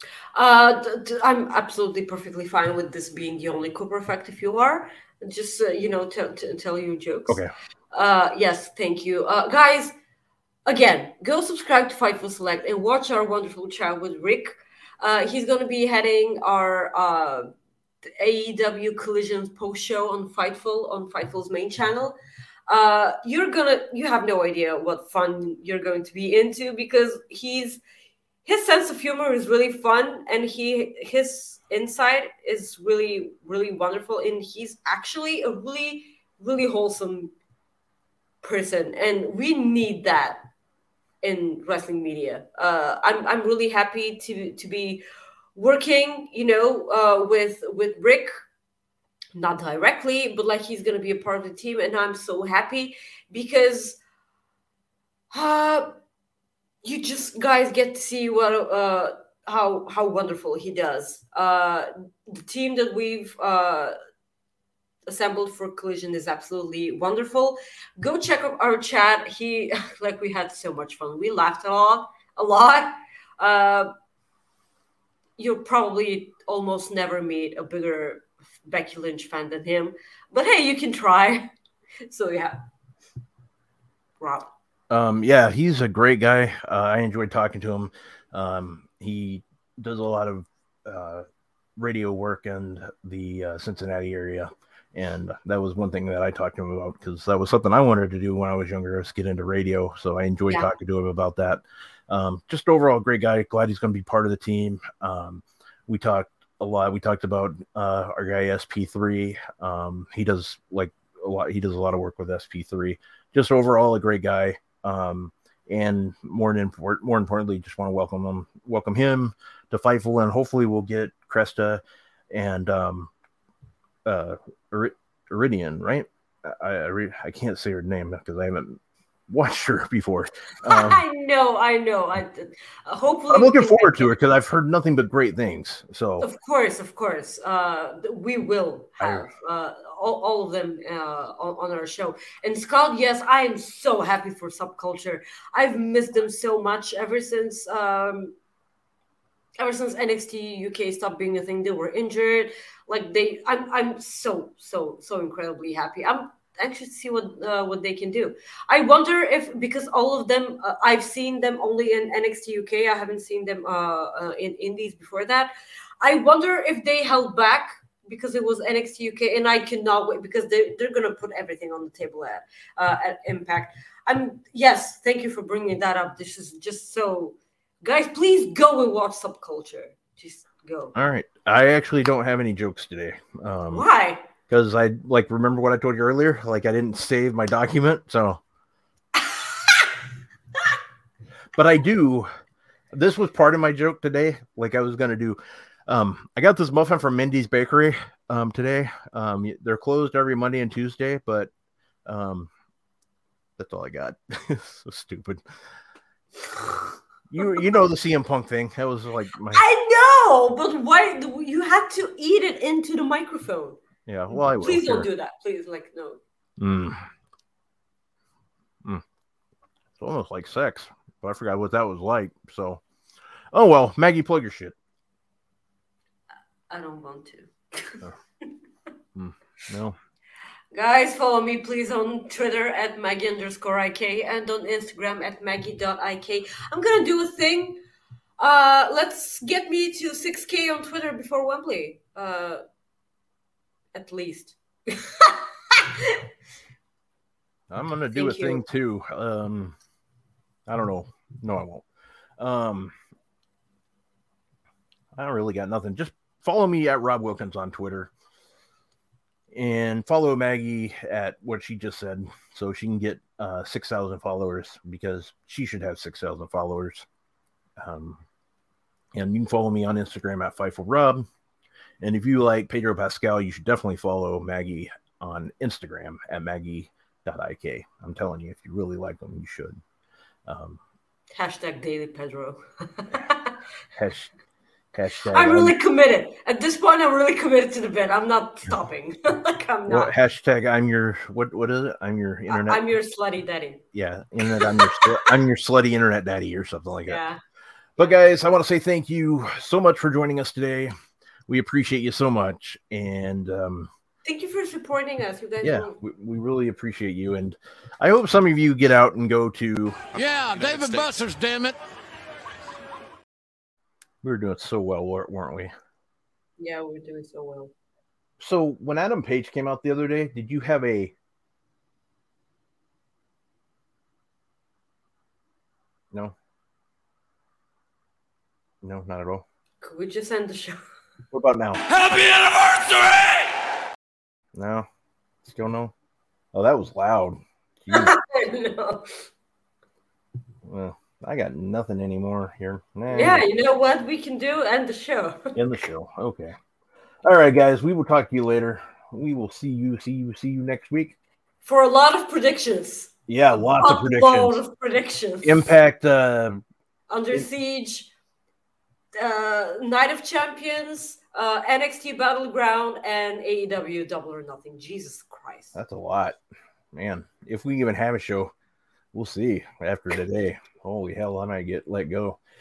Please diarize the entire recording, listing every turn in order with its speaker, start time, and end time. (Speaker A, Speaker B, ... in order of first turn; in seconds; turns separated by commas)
Speaker A: 0.3-9.9, Speaker A: 10.7-17.5, Speaker A: 18.1-22.1, Speaker A: 22.7-27.8, Speaker A: 28.4-37.3, Speaker A: 38.4-40.4, Speaker A: 41.2-45.0, Speaker A: 45.5-48.3, Speaker A: 49.3-54.0, Speaker A: 55.3-55.9, Speaker A: 56.8-63.9, Speaker A: 65.1-73.9, Speaker A: 75.4-81.5, Speaker A: 82.1-82.6, Speaker A: 84.2-84.5, Speaker B: 84.9-91.2, Speaker B: 91.8-123.1, Speaker B: 124.0-128.8, Speaker B: 129.3-131.0, Speaker A: 130.6-134.1, Speaker B: 133.3-136.3, Speaker A: 136.2-148.3, Speaker B: 139.0-139.3, Speaker A: 149.6-180.9, Speaker B: 180.9-183.8, Speaker A: 183.7-184.2, Speaker B: 184.5-188.4, Speaker A: 189.2-189.9, Speaker B: 191.6-192.3, Speaker B: 192.9-201.5, Speaker B: 202.1-202.5, Speaker B: 203.6-205.4, Speaker B: 207.3-209.6, Speaker A: 207.4-207.7, Speaker A: 209.5-216.2, Speaker B: 214.1-215.1, Speaker B: 216.6-217.1, Speaker B: 220.0-222.8, Speaker B: 223.5-224.7, Speaker A: 226.7-228.5, Speaker B: 229.2-229.9, Speaker A: 230.7-237.8, Speaker A: 238.4-242.6, Speaker A: 243.9-246.2, Speaker B: 247.7-249.7, Speaker A: 248.1-248.6, Speaker B: 250.7-251.8, Speaker B: 252.4-252.9, Speaker B: 255.2-258.1, Speaker B: 259.5-267.1, Speaker B: 267.8-268.2, Speaker B: 269.1-271.3, Speaker B: 272.0-279.8, Speaker B: 280.5-280.8, Speaker A: 281.4-283.5, Speaker B: 283.9-284.3, Speaker B: 284.9-285.7, Speaker A: 285.3-290.1, Speaker B: 289.9-292.8, Speaker A: 292.5-293.8, Speaker B: 293.9-297.2, Speaker A: 294.4-295.2, Speaker A: 297.1-297.4, Speaker B: 298.0-300.9, Speaker B: 301.5-303.9, Speaker A: 304.2-305.9, Speaker B: 305.6-310.0, Speaker C: 310.1-311.8, Speaker B: 314.2-315.7, Speaker A: 316.6-317.7, Speaker B: 318.4-321.1, Speaker B: 328.8-329.4, Speaker A: 329.8-330.8, Speaker B: 331.3-331.8, Speaker C: 331.8-333.6, Speaker B: 334.5-334.9, Speaker B: 335.4-335.9, Speaker B: 336.5-338.1, Speaker A: 337.9-339.2, Speaker B: 340.6-343.4, Speaker A: 343.1-345.6, Speaker B: 345.5-346.6, Speaker B: 347.2-351.1, Speaker A: 351.6-355.7, Speaker B: 353.3-354.6, Speaker B: 355.4-356.6, Speaker A: 357.1-358.1, Speaker A: 359.1-365.8, Speaker B: 365.7-366.4, Speaker B: 366.9-368.5, Speaker B: 369.1-372.4